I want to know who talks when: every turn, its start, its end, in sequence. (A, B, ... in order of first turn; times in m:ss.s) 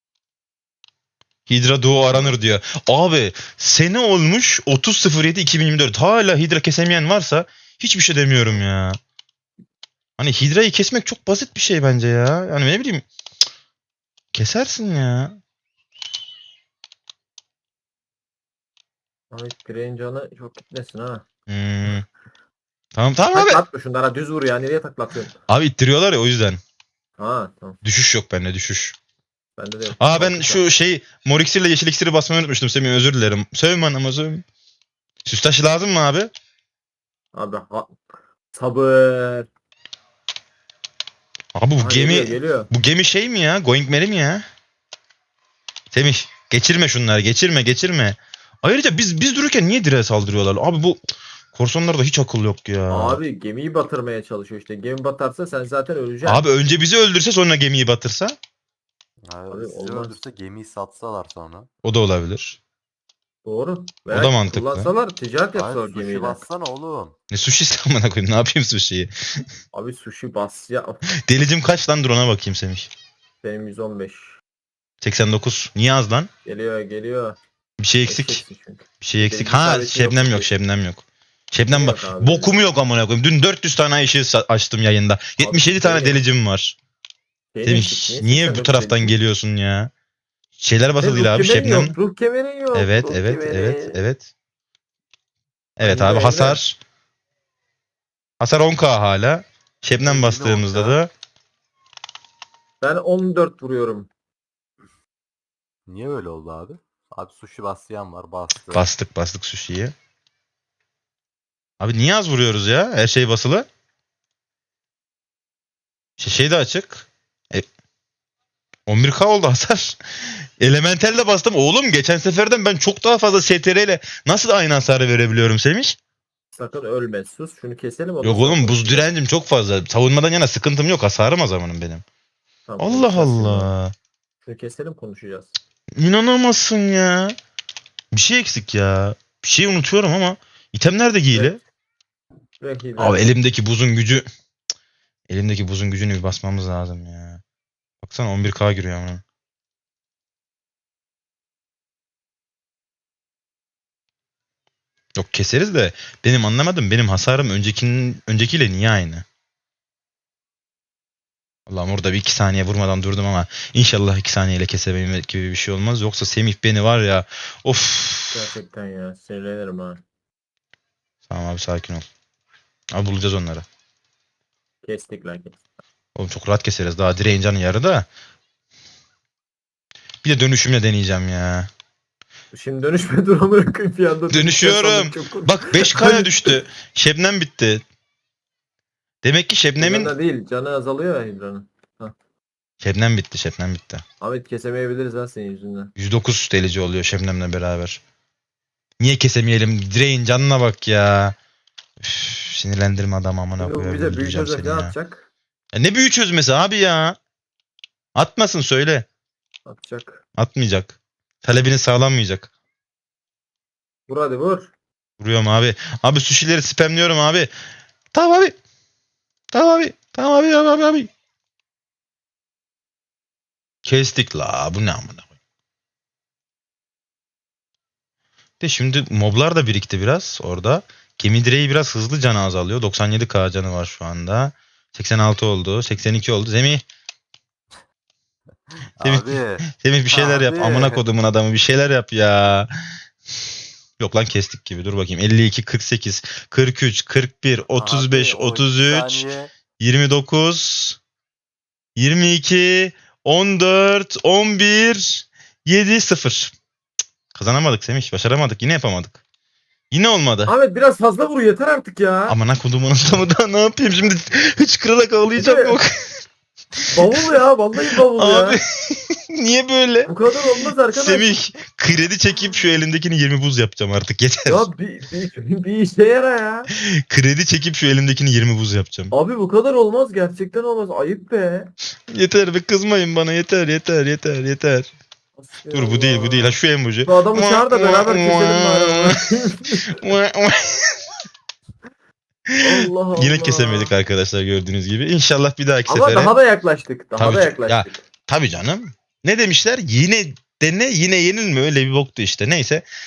0:01.5-0:09.0 A
0:02.1-0:02.3 B
0:10.2-0:13.1 A
0:14.3-0:15.4 A
0:19.3-0:21.3 B
0:21.5-0:22.1 A
0:23.0-0:23.6 A
0:23.3-0:25.4 B
0:25.5-0:26.6 A
0:27.2-0:27.8 B
0:27.8-0:29.0 A
0:29.6-0:30.6 B
0:30.0-0:34.4 A
0:35.3-0:36.3 A
0:37.3-0:38.0 B
0:38.5-0:39.5 B
0:41.6-0:44.4 A
0:41.8-0:42.7 B
0:45.9-0:51.0 A
0:51.5-0:53.2 A
0:52.9-0:56.5 B
0:56.2-0:58.4 A
0:59.2-1:01.7 C
0:59.5-1:00.2 B
1:01.8-1:02.6 A
1:03.4-1:06.5 B
1:04.1-1:04.9 A
1:05.5-1:07.2 C
1:07.3-1:09.1 A
1:09.7-1:11.0 B
1:11.2-1:12.9 A
1:13.4-1:14.4 B
1:15.0-1:16.3 A
1:16.5-1:17.4 B
1:17.8-1:18.4 A
1:18.0-1:20.5 B
1:19.0-1:26.8 A
1:21.7-1:22.6 B
1:25.4-1:26.2 B
1:27.5-1:29.2 B
1:27.6-1:29.9 A
1:30.6-1:32.0 A
1:31.0-1:34.0 B
1:32.7-1:34.3 A
1:35.8-1:36.8 A
1:35.8-1:36.6 B
1:38.4-1:41.1 A
1:40.0-1:41.0 C
1:42.8-1:44.1 B
1:45.9-1:48.9 C
1:48.7-1:49.9 A
1:51.8-1:53.7 A
1:56.2-1:57.7 A
1:58.9-2:00.0 A
2:00.6-2:06.0 A
2:06.5-2:09.1 B
2:08.2-2:12.0 A
2:12.7-2:13.7 B
2:12.8-2:13.9 A
2:14.4-2:15.5 B
2:16.0-2:17.4 A
2:18.1-2:21.6 A
2:21.3-2:21.6 B
2:22.6-2:23.3 B
2:23.0-2:24.3 A
2:25.3-2:27.4 A
2:28.0-2:29.2 A
2:35.2-2:39.2 A
2:41.7-2:48.5 A
2:48.3-2:50.0 B
2:51.3-2:52.1 A
2:52.9-2:53.7 A
2:54.8-2:55.6 B
2:56.2-2:58.1 A
3:00.2-3:01.7 A
3:02.5-3:06.6 B
3:04.3-3:07.8 A
3:09.2-3:10.1 A
3:09.8-3:12.1 B
3:12.8-3:14.0 A
3:14.2-3:15.9 B
3:16.0-3:18.0 A
3:19.0-3:21.4 A
3:22.0-3:24.9 A
3:23.6-3:25.2 B
3:25.7-3:27.2 A
3:28.2-3:29.1 A
3:29.7-3:30.2 B
3:30.4-3:32.5 A
3:34.1-3:34.7 B
3:35.2-3:37.5 A
3:38.1-3:38.6 A
3:39.5-3:41.1 A
3:43.8-3:45.3 A
3:48.6-3:56.8 A
3:59.0-4:01.0 C
3:59.0-4:02.7 A
4:04.0-4:09.3 A
4:07.8-4:09.5 C
4:09.8-4:11.0 A
4:12.0-4:16.5 A
4:17.3-4:19.2 A
4:19.9-4:20.5 A
4:20.5-4:22.4 B
4:22.3-4:26.2 A
4:25.3-4:25.8 B
4:26.8-4:27.2 A
4:26.9-4:28.6 B
4:28.2-4:30.1 A
4:30.1-4:31.4 B
4:30.9-4:34.7 A
4:34.5-4:36.7 B
4:36.8-4:39.1 A
4:39.1-4:41.7 B
4:42.1-4:44.9 A
4:45.4-4:50.0 B
4:45.7-4:49.1 A
4:49.7-4:51.0 A
4:52.6-4:56.4 A
4:52.6-4:53.9 B
4:55.9-4:58.0 B
4:57.2-5:02.8 A